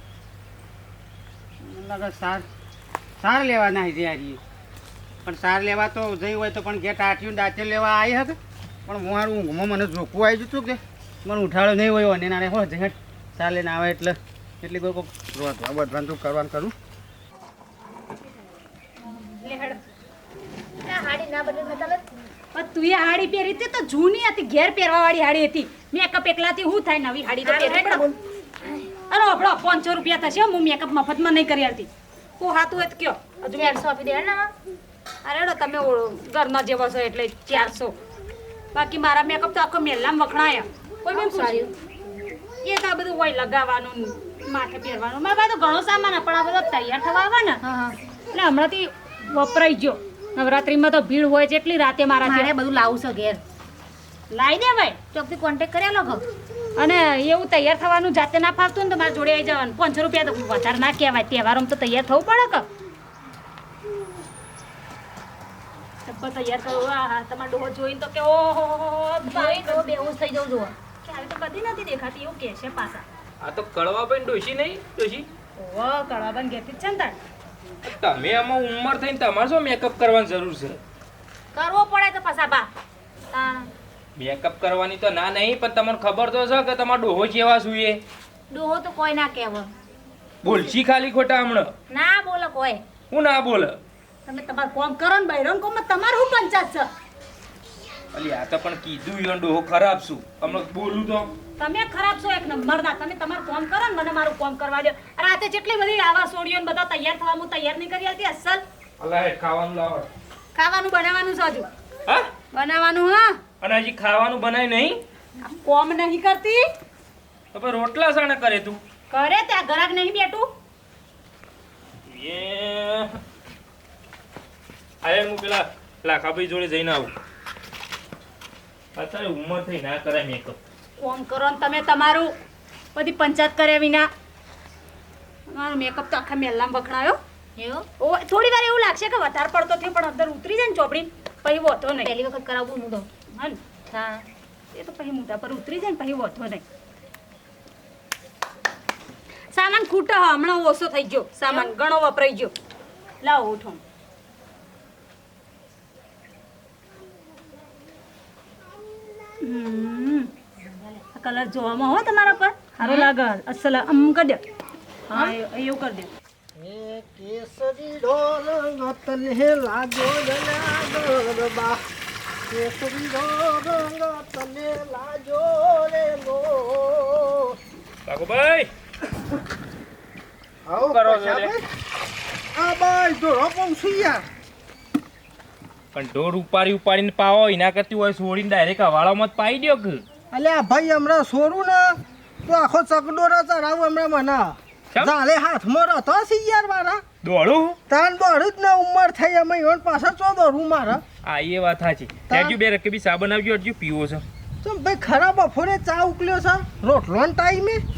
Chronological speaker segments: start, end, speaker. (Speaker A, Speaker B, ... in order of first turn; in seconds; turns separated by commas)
Speaker A: 1.6-2.5, Speaker A: 3.2-4.4, Speaker A: 5.2-16.7, Speaker B: 19.2-19.8, Speaker C: 20.8-22.0, Speaker B: 22.5-28.1, Speaker C: 27.4-28.2, Speaker B: 29.1-33.8, Speaker C: 33.4-34.5, Speaker B: 35.2-38.0, Speaker B: 38.7-41.7, Speaker C: 41.1-41.7, Speaker B: 42.6-47.6, Speaker C: 47.6-48.0, Speaker B: 48.3-52.5, Speaker C: 52.2-53.4, Speaker B: 54.3-55.0, Speaker C: 55.1-56.2, Speaker B: 56.8-62.7, Speaker B: 66.1-69.9, Speaker C: 69.3-70.7, Speaker B: 71.0-73.0, Speaker D: 73.4-75.3, Speaker B: 75.6-77.2, Speaker D: 77.8-80.8, Speaker C: 81.5-82.7, Speaker C: 83.3-83.7, Speaker D: 84.2-88.0, Speaker C: 88.5-89.7, Speaker D: 90.4-91.7, Speaker C: 91.9-92.8, Speaker D: 93.1-93.8, Speaker B: 94.3-96.9, Speaker D: 98.1-101.3, Speaker B: 101.6-108.6, Speaker D: 109.0-110.1, Speaker B: 110.5-111.7, Speaker B: 112.5-113.4, Speaker D: 113.6-115.0, Speaker B: 115.4-116.7, Speaker D: 117.5-118.8, Speaker B: 119.1-120.5, Speaker D: 122.1-123.2, Speaker D: 125.0-127.1, Speaker D: 128.9-130.6, Speaker B: 131.0-132.3, Speaker B: 132.9-134.1, Speaker B: 135.5-137.2, Speaker C: 137.6-137.9, Speaker B: 138.0-142.1, Speaker C: 141.9-143.1, Speaker B: 143.3-143.6, Speaker C: 143.9-144.2, Speaker B: 144.7-146.6, Speaker B: 149.5-152.5, Speaker C: 151.5-151.7, Speaker B: 153.2-153.8, Speaker B: 159.4-160.3, Speaker B: 161.1-164.4, Speaker C: 162.8-163.1, Speaker B: 165.1-166.1, Speaker C: 165.1-165.4, Speaker E: 166.6-171.8, Speaker E: 172.5-177.6, Speaker D: 178.1-178.7, Speaker E: 180.7-181.7, Speaker D: 180.9-181.6, Speaker E: 182.6-184.2, Speaker D: 185.9-190.0, Speaker E: 190.3-197.0, Speaker D: 197.2-197.8, Speaker E: 197.9-201.0, Speaker D: 201.2-204.2, Speaker E: 202.3-202.6, Speaker E: 204.6-207.8